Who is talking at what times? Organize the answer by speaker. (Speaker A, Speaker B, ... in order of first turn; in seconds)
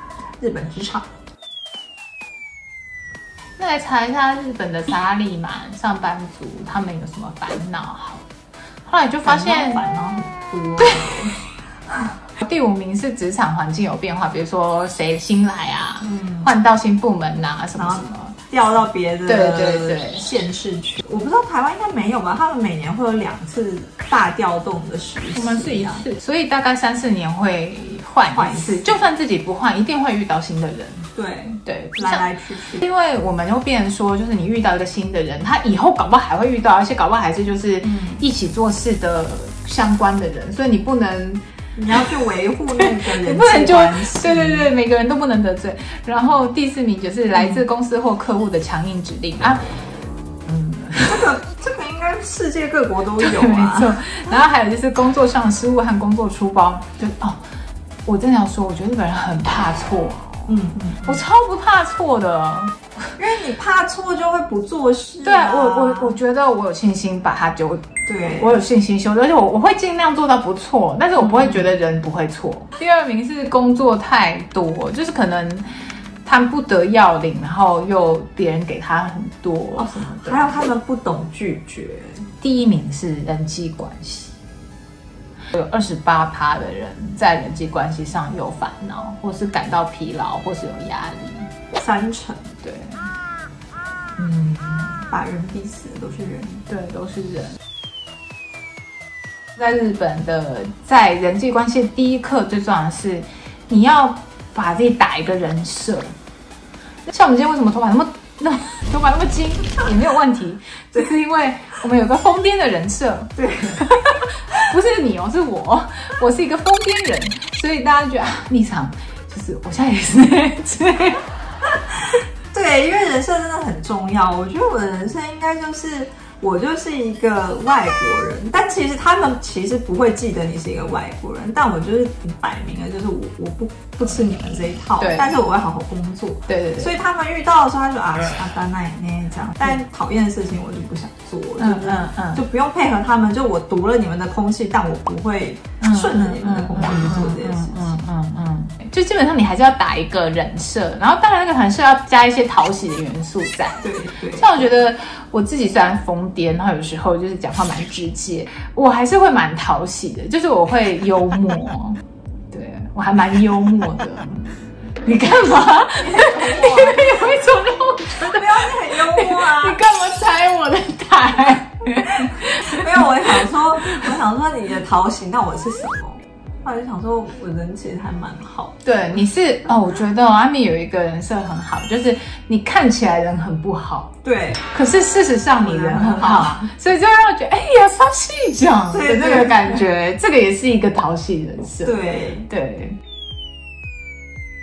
Speaker A: 0.4-1.1, 9.2-11.3, 16.0-16.5, 17.8-26.0, 28.3-29.0, 31.1-32.9, 37.8-38.2, 41.8-44.7, 47.3-47.6, 51.1-54.3, 60.5-61.2, 63.2-66.2, 68.1-68.6, 71.2-71.7, 79.8-82.3, 91.8-92.5, 95.1-96.6, 113.4-114.7, 121.7-148.0, 153.8-154.7, 165.9-167.5, 168.1-169.8, 172.5-178.8, 184.2-184.6, 185.6-186.7, 188.9-189.8, 191.8-192.5
Speaker B: 3.6-8.3, 8.8-9.8, 10.8-11.3, 12.4-18.4, 19.2-20.2, 25.3-31.1, 31.6-32.3, 32.8-41.4, 42.8-49.6, 50.5-51.3, 53.2-57.4, 58.0-62.9, 65.2-75.7, 76.2-80.7, 82.4-84.3, 85.5-91.5, 92.6-93.1, 94.2-95.0, 96.7-97.6, 99.6-106.1, 107.0-114.0, 114.6-121.2, 135.0-135.4, 136.5-136.9, 141.6-142.4, 145.8-162.0, 162.5-164.5, 165.0-174.1, 178.8-184.1, 184.7-192.9